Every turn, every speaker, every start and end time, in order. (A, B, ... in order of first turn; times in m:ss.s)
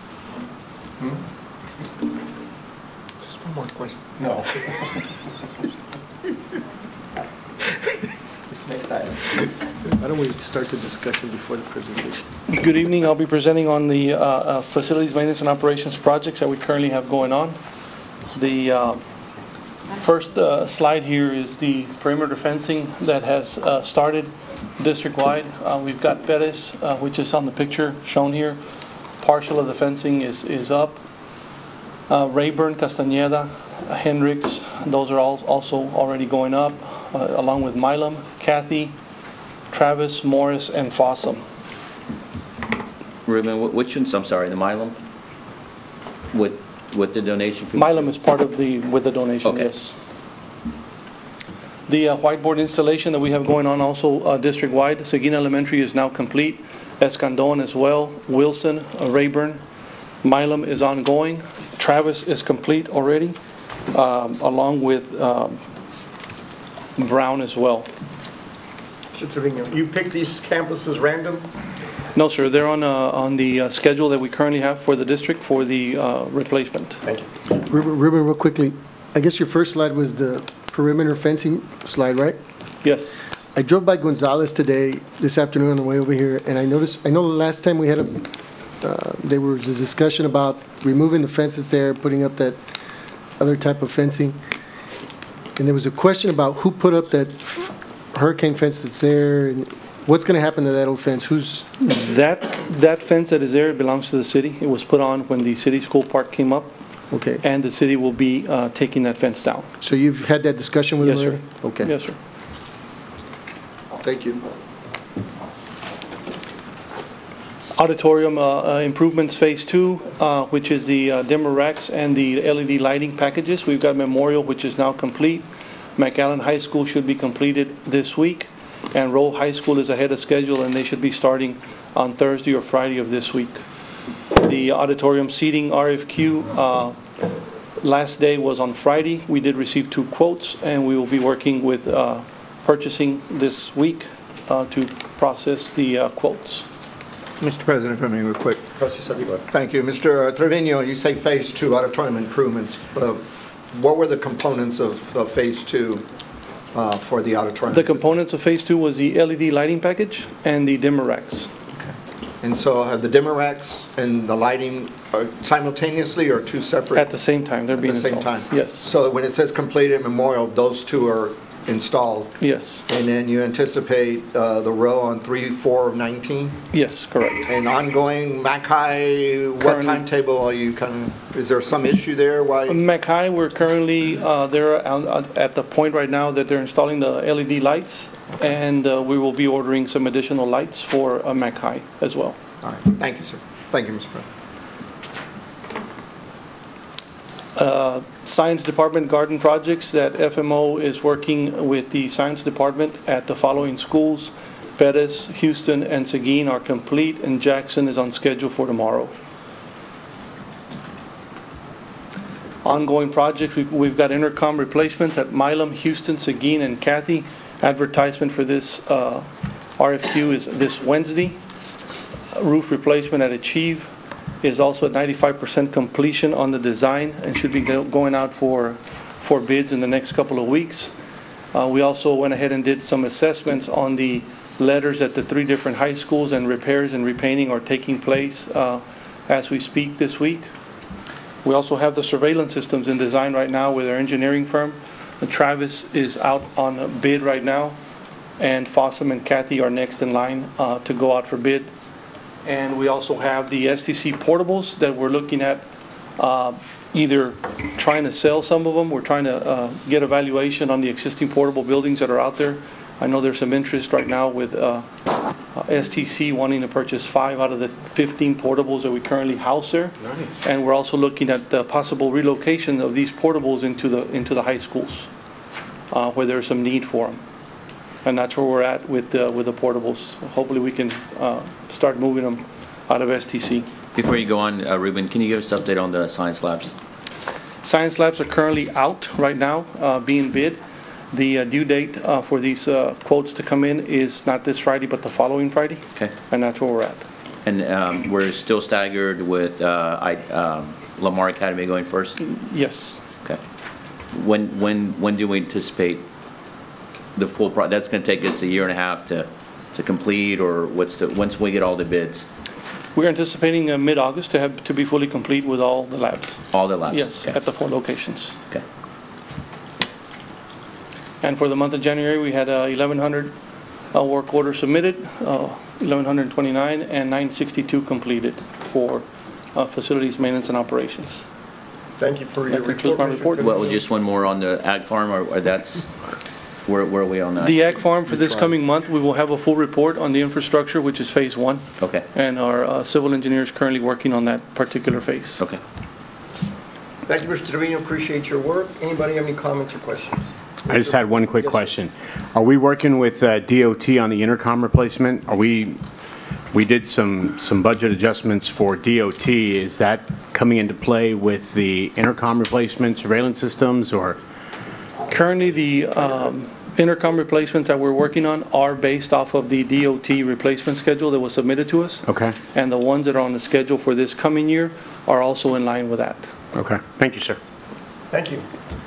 0:03.2-0:04.0 A
0:04.2-0:04.6 B
0:08.6-0:09.1 B
0:10.0-0:12.2 C
0:12.5-0:17.6 D
0:18.3-0:19.0 D
0:19.9-0:28.6 D
0:29.2-0:31.0 D
0:32.1-0:38.9 D
0:39.7-0:41.4 D
0:43.2-0:45.0 E
0:46.3-0:48.0 E
0:47.7-0:49.9 D
0:49.4-0:49.7 E
0:51.9-0:59.6 D
1:00.2-1:03.4 D
1:03.9-1:05.6 D
1:07.0-1:07.9 D
1:09.1-1:11.5 B
1:12.1-1:17.0 D
1:17.7-1:22.4 C
1:22.8-1:23.4 D
1:23.5-1:28.3 C
1:28.8-1:32.6 C
1:33.4-1:34.4 C
1:35.6-1:41.7 C
1:41.8-1:46.7 D
1:47.1-1:47.4 C
1:47.4-1:49.7 D
1:49.8-1:51.9 C
1:51.0-1:52.2 D
1:53.9-1:54.4 C
1:57.8-2:05.4 D
2:06.0-2:13.6 D
2:14.4-2:17.0 D
2:17.8-2:26.7 D
2:27.4-2:28.7 A
2:28.8-2:29.4 B
2:29.4-2:38.0 A
2:37.7-2:41.5 D
2:41.7-2:47.1 A
2:47.0-2:48.8 D
2:47.7-2:56.6 A
2:52.4-2:52.8 D
2:56.7-2:57.5 D
2:57.5-3:02.8 A
2:59.6-3:00.0 D
3:02.7-3:12.4 D
3:12.6-3:14.2 A
3:17.5-3:29.1 D
3:32.6-3:41.4 D
3:42.3-3:50.9 D
3:51.5-4:00.5 D
4:01.4-4:07.8 D
4:08.4-4:11.7 D
4:12.4-4:15.6 D
4:16.2-4:24.8 D
4:25.5-4:35.1 D
4:35.9-4:37.2 D
4:38.0-4:43.7 D
4:43.9-4:46.7 E
4:47.6-4:50.6 D
4:51.1-4:57.1 D
4:57.4-5:02.2 E
5:02.2-5:03.0 D
5:04.1-5:06.0 E
5:07.1-5:12.3 E
5:12.9-5:18.4 D
5:16.5-5:17.4 E
5:21.2-5:31.3 D
5:32.0-5:33.8 B
5:32.5-5:33.4 D
5:33.4-5:36.0 E
5:36.6-5:37.6 E
5:37.4-5:45.4 D
5:41.8-5:42.0 E
5:47.0-5:51.7 B
5:50.6-5:55.8 F
5:56.5-6:04.2 F
6:05.1-6:16.3 D
6:12.1-6:12.3 F
6:16.5-6:17.4 F
6:18.1-6:18.4 B